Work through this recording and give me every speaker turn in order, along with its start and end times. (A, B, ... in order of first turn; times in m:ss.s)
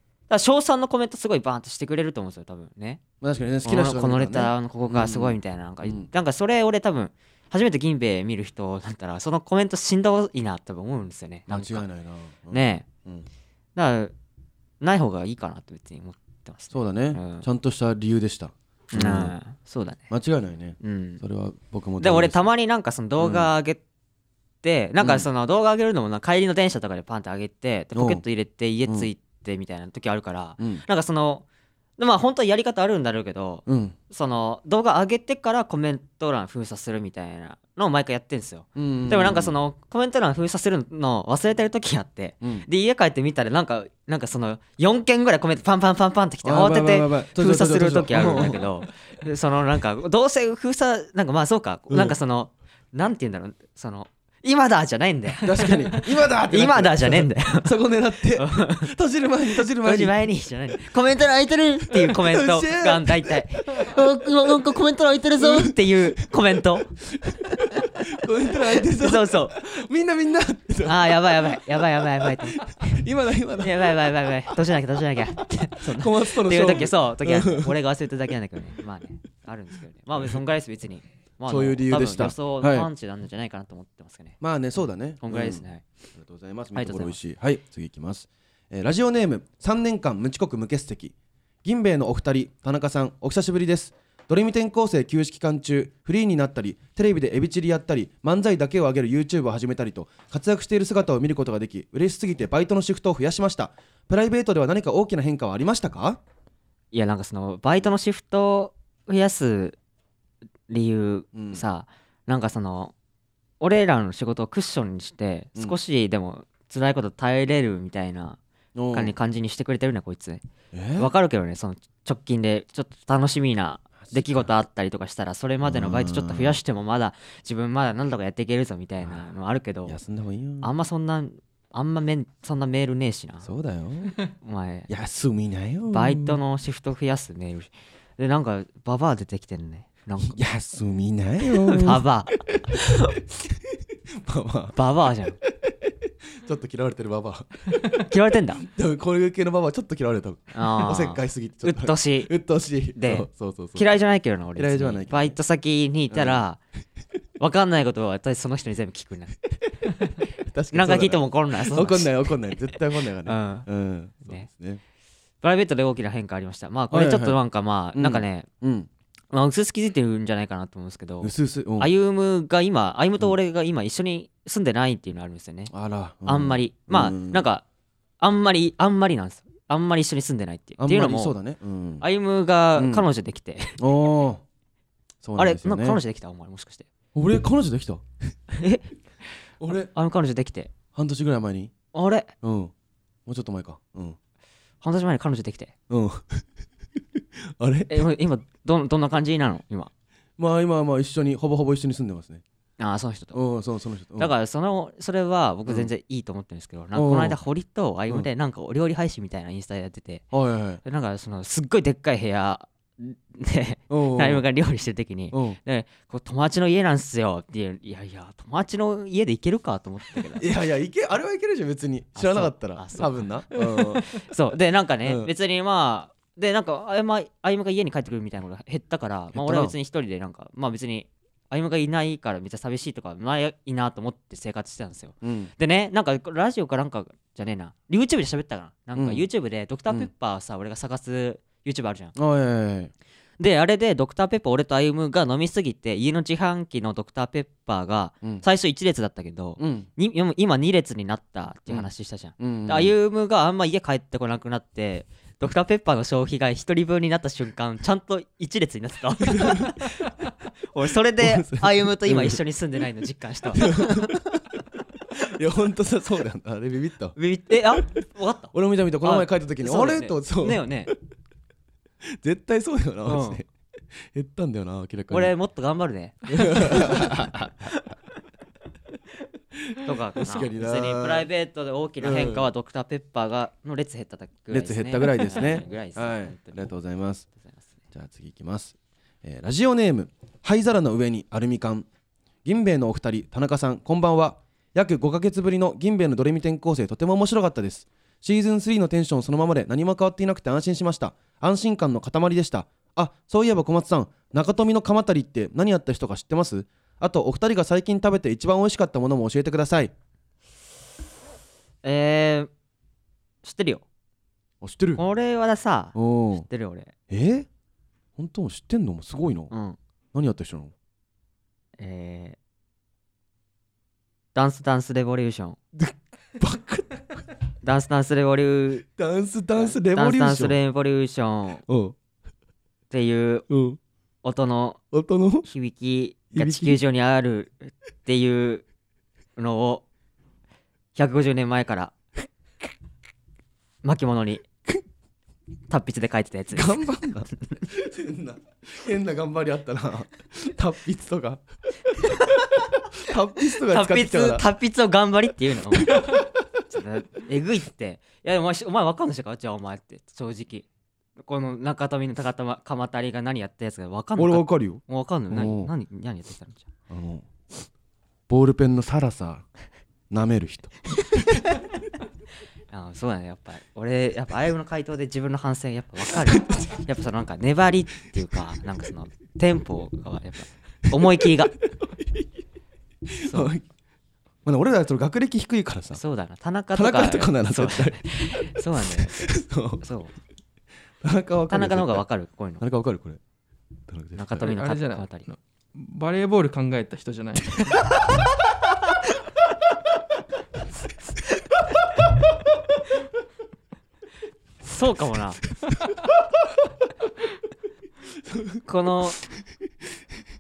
0:00.3-0:03.0 A
0:03.2-0:06.1 B
0:03.6-0:11.8 A
0:11.5-0:13.3 B
0:12.5-0:12.9 A
0:13.8-0:14.1 A
0:14.8-0:17.5 A
0:16.7-0:19.4 B
0:18.9-0:20.0 A
0:20.1-0:22.4 B
0:20.8-0:21.2 A
0:22.0-0:23.8 A
0:23.2-0:23.5 B
0:24.6-0:31.4 A
0:25.0-0:25.3 B
0:28.0-0:28.2 B
0:30.6-0:30.8 B
0:32.0-0:57.8 A
0:33.7-0:34.0 B
0:38.8-0:39.5 B
0:42.4-0:42.7 B
0:46.4-0:48.7 B
0:55.4-1:00.2 B
0:58.3-0:58.9 A
0:59.6-1:07.0 A
1:01.9-1:04.0 B
1:05.4-1:06.4 B
1:07.1-1:14.6 B
1:07.6-1:09.6 A
1:10.8-1:13.0 A
1:13.6-1:24.4 A
1:15.8-1:17.8 B
1:21.5-1:22.9 B
1:24.4-1:46.2 B
1:25.2-1:25.8 A
1:26.8-1:27.2 A
1:46.9-1:49.8 A
1:50.7-1:52.9 A
1:51.3-1:51.6 B
1:53.6-1:58.4 A
1:58.8-1:59.1 B
1:58.9-2:00.4 A
2:00.7-2:01.1 B
2:01.0-2:10.0 A
2:04.0-2:04.5 B
2:05.6-2:06.6 B
2:09.8-2:10.7 B
2:10.6-2:13.5 A
2:13.4-2:14.2 B
2:14.4-2:14.9 A
2:14.9-2:16.4 B
2:15.9-2:20.4 A
2:20.2-2:22.8 B
2:21.5-2:23.1 A
2:23.7-2:24.8 B
2:24.7-2:25.4 A
2:25.4-2:28.1 B
2:28.0-2:28.6 A
2:28.6-2:33.9 B
2:30.5-2:32.3 A
2:33.0-2:36.6 A
2:34.6-2:35.4 B
2:36.1-2:36.4 B
2:37.4-2:39.4 A
2:39.9-2:44.8 B
2:40.7-2:42.3 A
2:43.2-2:43.7 A
2:45.4-2:48.5 A
2:46.9-2:47.4 B
2:47.9-2:48.9 B
2:49.3-2:55.7 A
2:51.2-2:51.9 B
2:55.7-2:57.4 B
2:56.3-2:57.6 A
2:58.2-3:01.4 A
3:00.8-3:02.0 B
3:02.0-3:03.8 A
3:02.8-3:03.1 B
3:03.8-3:04.4 B
3:05.2-3:06.0 B
3:05.4-3:06.9 A
3:07.2-3:08.0 B
3:08.5-3:10.7 A
3:09.6-3:09.9 B
3:10.9-3:11.7 B
3:11.9-3:12.3 A
3:12.4-3:12.7 B
3:13.3-3:14.2 B
3:14.8-3:15.7 A
3:15.9-3:16.5 B
3:17.2-3:18.0 B
3:17.9-3:19.9 A
3:20.4-3:22.4 B
3:22.8-3:23.4 A
3:23.3-3:24.3 B
3:24.2-3:30.3 A
3:26.9-3:27.4 B
3:30.3-3:30.8 B
3:30.8-3:40.5 A
3:33.9-3:34.4 B
3:35.3-3:35.6 B
3:40.4-3:44.1 B
3:42.2-4:02.2 A
3:45.0-3:45.3 B
3:49.3-3:49.8 B
3:55.2-3:55.5 B
3:59.0-3:59.2 B
4:02.2-4:02.9 B
4:03.4-4:24.2 A
4:09.6-4:09.9 B
4:11.7-4:12.9 B
4:19.3-4:19.8 B
4:21.2-4:22.4 B
4:23.5-4:24.6 B
4:25.2-4:27.2 B
4:27.2-4:30.9 A
4:28.5-4:31.0 B
4:32.0-4:35.3 B
4:33.1-4:33.4 A
4:35.1-4:37.8 A
4:36.3-4:37.7 B
4:39.7-4:41.3 B
4:39.8-4:46.7 A
4:42.0-4:42.5 B
4:44.5-4:47.3 B
4:47.4-4:47.7 A
4:47.9-4:51.9 B
4:52.4-5:09.9 B
5:11.8-5:12.5 A
5:13.4-5:13.8 A
5:14.6-5:15.0 B
5:15.0-5:16.9 A
5:16.0-5:16.5 B
5:17.1-5:17.5 B
5:18.2-5:19.5 B
5:19.5-5:19.8 A
5:20.1-5:20.7 B
5:21.8-5:22.4 A
5:24.4-5:25.6 A
5:25.8-5:27.2 B
5:27.6-5:28.8 A
5:29.0-5:30.6 B
5:29.6-5:31.6 A
5:31.7-5:32.0 B
5:32.9-5:33.5 A
5:33.5-5:33.8 B
5:34.2-5:34.8 A
5:34.9-5:35.5 B
5:35.4-5:38.7 A
5:36.3-5:36.8 B
5:39.4-5:39.8 A
5:41.0-5:41.9 A
5:43.8-5:44.4 A
5:45.7-5:47.6 A
5:46.5-5:51.4 B
5:52.1-5:52.3 A
5:52.9-5:54.5 B
5:53.5-6:00.7 A
5:55.7-5:56.3 B
6:01.2-6:06.7 A
6:04.2-6:05.7 B
6:06.9-6:07.3 B
6:08.3-6:09.5 B
6:10.1-6:10.8 B
6:12.7-6:21.6 A
6:16.2-6:16.7 B
6:21.7-6:22.2 B
6:23.1-6:23.6 B
6:23.2-6:23.5 A
6:24.4-6:26.0 B
6:25.9-6:29.3 A
6:26.7-6:29.8 B
6:29.8-6:30.1 A
6:31.0-6:32.0 B
6:31.5-6:32.6 A
6:32.6-6:33.2 B
6:33.9-6:34.5 B
6:34.2-6:35.3 A
6:34.4-6:37.9 C
6:44.6-6:45.4 A
6:48.1-6:48.6 B
6:48.6-6:49.2 A